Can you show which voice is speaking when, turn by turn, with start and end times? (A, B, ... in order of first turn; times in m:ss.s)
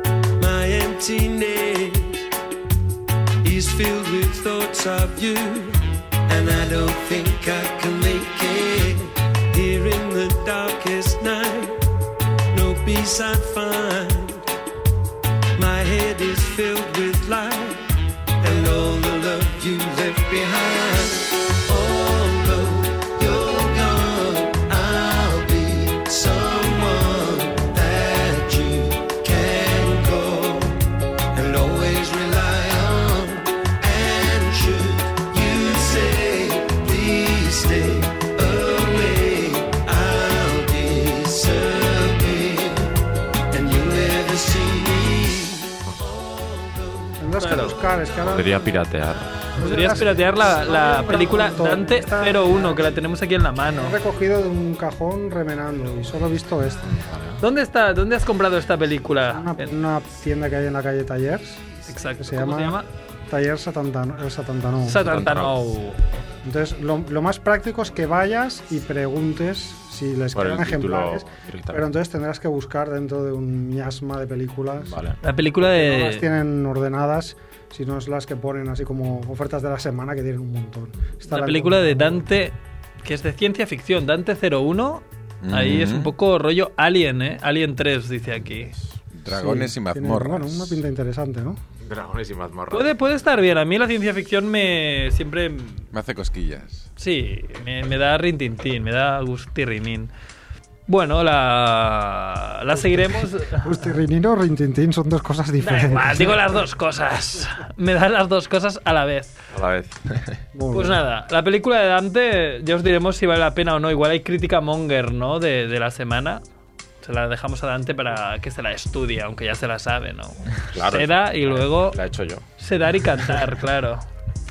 0:00.4-0:02.2 A
0:03.4-0:11.8 A
0:12.5-0:14.4 A
0:15.5-0:17.9 A
0:18.4-0:43.0 A
0:43.5-0:47.1 A
0:47.2-0:48.7 B
0:47.4-0:47.8 C
0:48.2-0:49.4 D
0:49.6-0:52.9 B
0:49.6-0:54.0 C
0:53.8-0:57.1 B
0:57.4-0:59.7 C
0:59.3-1:01.6 B
1:01.9-1:02.9 C
1:02.2-1:05.1 B
1:04.8-1:06.0 C
1:04.9-1:05.8 D
1:06.4-1:15.0 B
1:10.3-1:11.9 D
1:14.8-1:15.2 D
1:15.2-1:16.2 C
1:15.6-1:22.2 B
1:21.3-1:28.7 C
1:25.4-1:26.1 E
1:29.1-1:30.8 E
1:29.3-1:31.6 B
1:31.8-1:32.9 D
1:32.7-1:35.8 C
1:35.9-1:36.9 E
1:37.0-1:40.1 C
1:40.9-1:43.8 C
1:42.7-1:46.6 B
1:45.6-1:49.3 C
1:49.5-1:50.4 D
1:50.5-1:51.0 B
1:50.7-1:56.4 C
1:57.0-2:02.0 C
2:00.7-2:02.4 D
2:02.6-2:04.0 C